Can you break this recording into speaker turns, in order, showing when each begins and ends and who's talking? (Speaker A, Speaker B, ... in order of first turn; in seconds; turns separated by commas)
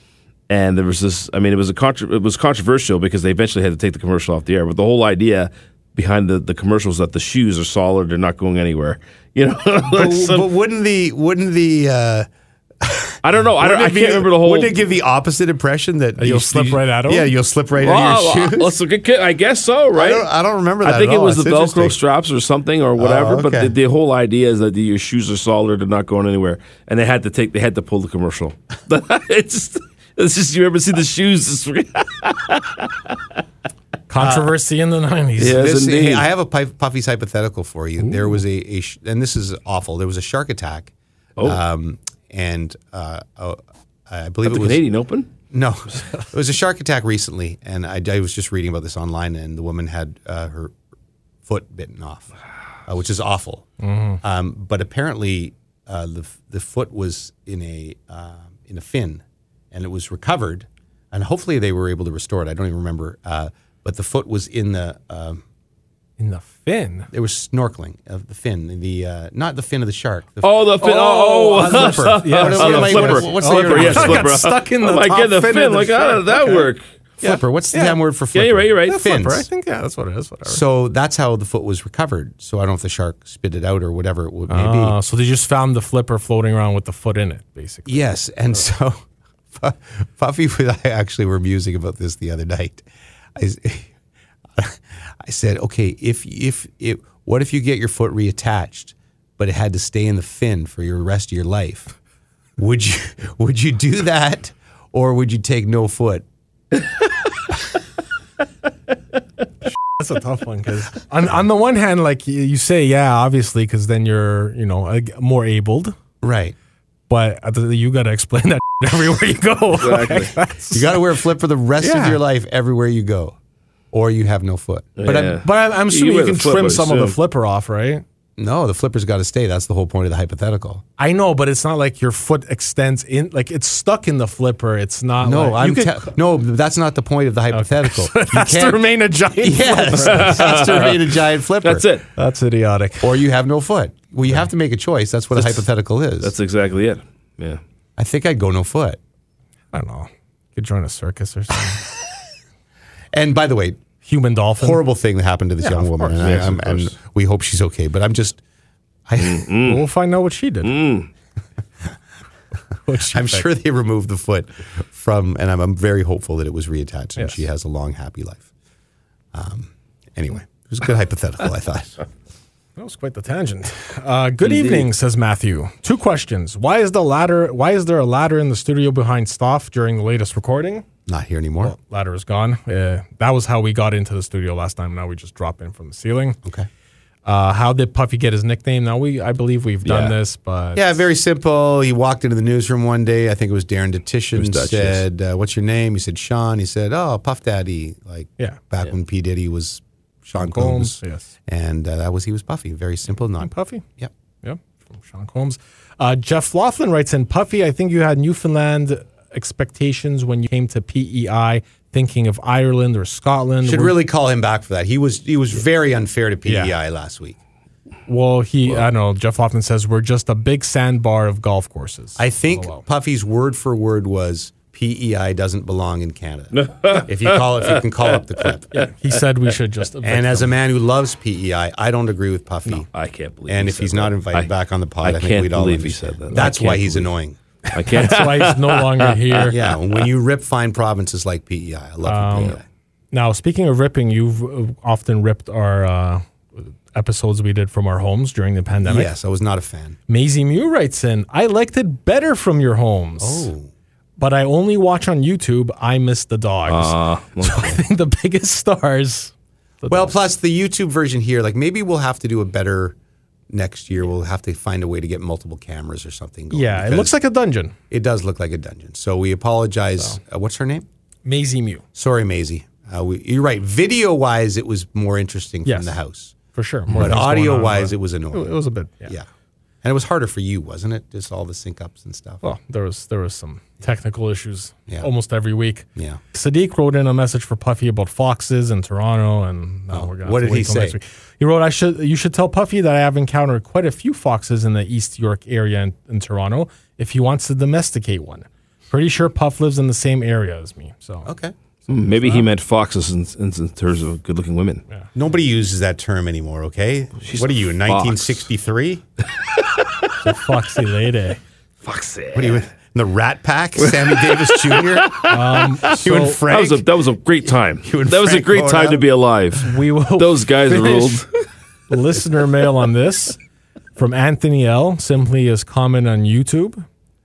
Speaker A: 0.5-10.5, Speaker B: 9.9-12.3, Speaker B: 12.8-18.8, Speaker A: 13.2-14.8, Speaker C: 16.2-17.3, Speaker A: 17.8-20.3, Speaker B: 19.9-22.0, Speaker A: 20.8-33.2, Speaker B: 23.0-23.8, Speaker C: 34.1-35.7, Speaker B: 34.2-34.5, Speaker A: 35.4-36.3, Speaker B: 35.5-44.8, Speaker A: 44.5-45.3, Speaker B: 45.5-50.7, Speaker B: 51.5-52.3, Speaker B: 52.9-53.7, Speaker C: 53.8-54.2, Speaker B: 54.2-65.4, Speaker C: 66.2-67.1, Speaker B: 67.1-70.7, Speaker A: 70.4-76.8, Speaker C: 70.8-76.7, Speaker B: 71.5-74.3, Speaker C: 77.2-78.0, Speaker B: 77.2-79.5, Speaker A: 78.3-79.0, Speaker C: 78.9-80.6, Speaker B: 80.5-85.0, Speaker C: 84.5-88.0, Speaker B: 87.9-89.0, Speaker B: 89.5-93.9, Speaker B: 94.6-101.9, Speaker B: 102.6-106.2, Speaker C: 110.0-116.0, Speaker B: 116.2-116.5, Speaker C: 117.1-121.0, Speaker A: 119.7-120.3, Speaker B: 120.7-123.4, Speaker C: 121.8-122.2, Speaker B: 123.9-125.4, Speaker A: 125.0-127.2, Speaker C: 125.4-128.0, Speaker B: 128.4-130.8, Speaker C: 131.0-136.1, Speaker B: 135.2-138.8, Speaker C: 137.5-140.9, Speaker B: 139.4-141.9, Speaker A: 139.9-141.0, Speaker A: 141.6-142.1, Speaker C: 142.2-143.2, Speaker B: 143.0-146.3, Speaker A: 146.2-147.6, Speaker B: 148.0-149.0, Speaker C: 149.7-151.8, Speaker B: 153.1-153.8, Speaker C: 154.0-154.8, Speaker B: 154.6-158.4, Speaker C: 155.6-156.5, Speaker A: 156.2-156.9, Speaker B: 159.1-159.5, Speaker A: 159.2-159.8, Speaker C: 159.6-160.7, Speaker A: 160.6-161.1, Speaker C: 162.8-163.5, Speaker B: 163.1-168.5, Speaker C: 167.2-167.4, Speaker B: 169.3-172.0, Speaker C: 172.8-180.9, Speaker A: 174.4-174.9, Speaker B: 181.1-181.8, Speaker C: 181.6-186.4, Speaker C: 187.2-190.9, Speaker A: 189.8-190.2, Speaker B: 190.8-204.1, Speaker A: 194.3-195.0, Speaker C: 200.4-201.3, Speaker C: 203.4-203.8, Speaker C: 204.4-213.9, Speaker B: 213.6-217.4, Speaker C: 216.5-216.7, Speaker C: 218.1-222.8, Speaker B: 222.2-228.8, Speaker A: 226.5-227.8, Speaker C: 228.7-230.6, Speaker B: 230.0-232.9, Speaker A: 232.9-234.5, Speaker B: 233.5-237.4, Speaker A: 235.0-237.1, Speaker A: 237.7-239.7, Speaker C: 237.7-239.6, Speaker B: 239.4-242.6, Speaker C: 242.1-242.6, Speaker C: 243.1-249.1, Speaker B: 248.8-250.0, Speaker C: 250.1-253.5, Speaker B: 253.2-253.7, Speaker C: 254.2-260.1, Speaker A: 256.7-257.8, Speaker B: 259.9-263.0, Speaker B: 263.5-267.1, Speaker C: 266.5-267.8, Speaker B: 267.9-270.9, Speaker C: 271.2-271.8, Speaker B: 271.9-276.4, Speaker C: 275.7-276.0, Speaker C: 276.5-279.1, Speaker B: 276.9-278.6, Speaker B: 279.8-282.4, Speaker C: 282.4-301.3, Speaker B: 286.0-286.2, Speaker B: 289.9-291.0, Speaker B: 301.3-301.5, Speaker C: 301.9-302.5, Speaker A: 301.9-304.8, Speaker B: 305.1-309.0, Speaker A: 307.2-308.4, Speaker C: 310.2-311.4, Speaker A: 311.8-312.6, Speaker B: 312.3-315.2, Speaker A: 313.8-321.3, Speaker C: 315.3-316.4, Speaker B: 315.9-316.9, Speaker B: 317.8-319.1, Speaker C: 319.6-321.2, Speaker C: 321.9-323.4, Speaker C: 324.0-326.8